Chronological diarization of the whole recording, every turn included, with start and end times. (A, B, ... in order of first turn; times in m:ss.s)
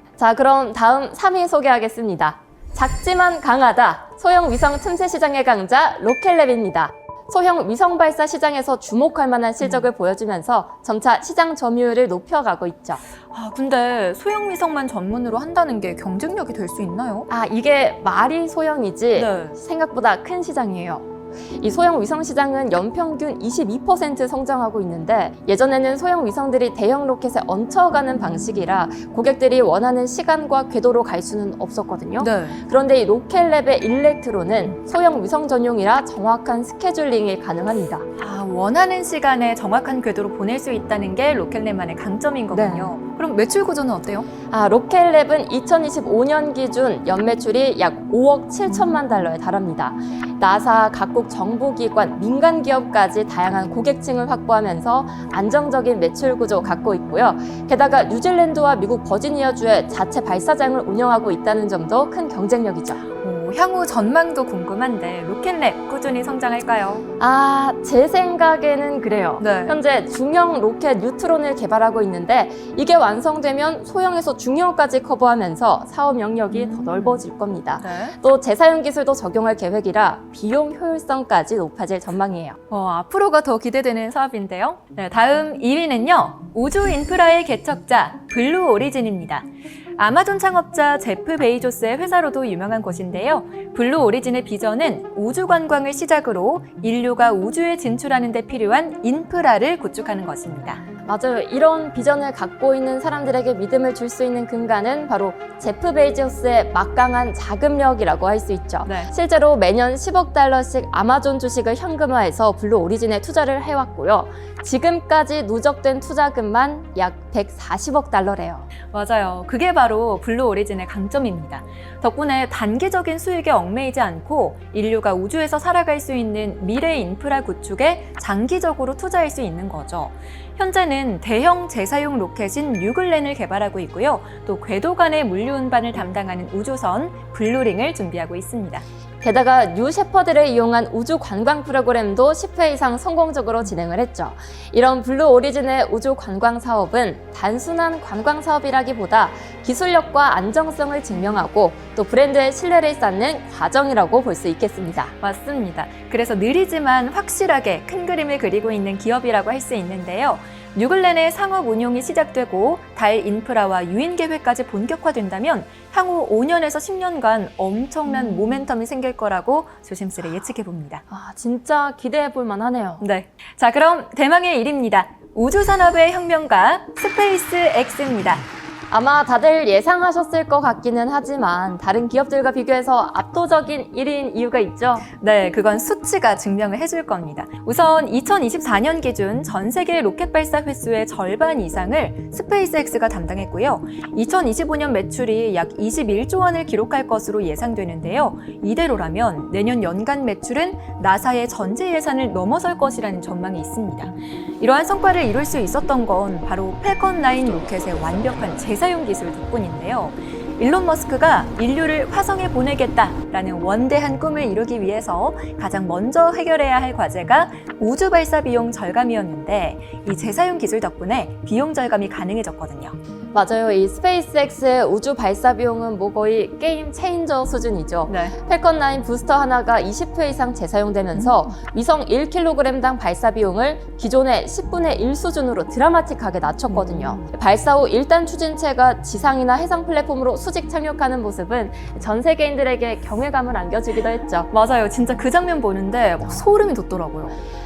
0:00.2-0:13.0 A
0:09.6-0:09.9 B
0:13.3-0:17.3 B
0:17.3-0:21.1 A
0:19.2-0:19.6 B
0:21.6-0:38.1 A
0:32.2-0:32.6 B
0:38.2-0:44.3 B
0:42.5-0:42.9 A
0:44.5-1:03.0 A
1:03.2-1:07.1 B
1:07.2-1:22.6 A
1:09.4-1:09.8 B
1:16.5-1:16.9 B
1:17.8-1:18.2 B
1:22.7-1:40.8 B
1:41.0-1:58.7 A
1:48.8-1:49.1 B
1:58.9-2:18.8 B
2:19.2-2:35.1 A
2:35.2-2:51.0 B
2:48.1-2:48.6 A
2:51.1-2:53.0 A
2:53.0-2:58.4 B
2:58.9-3:05.1 A
3:05.2-3:43.0 B
3:43.3-4:04.5 A
3:48.1-3:48.4 B
3:56.7-3:57.2 B
4:04.5-4:07.4 B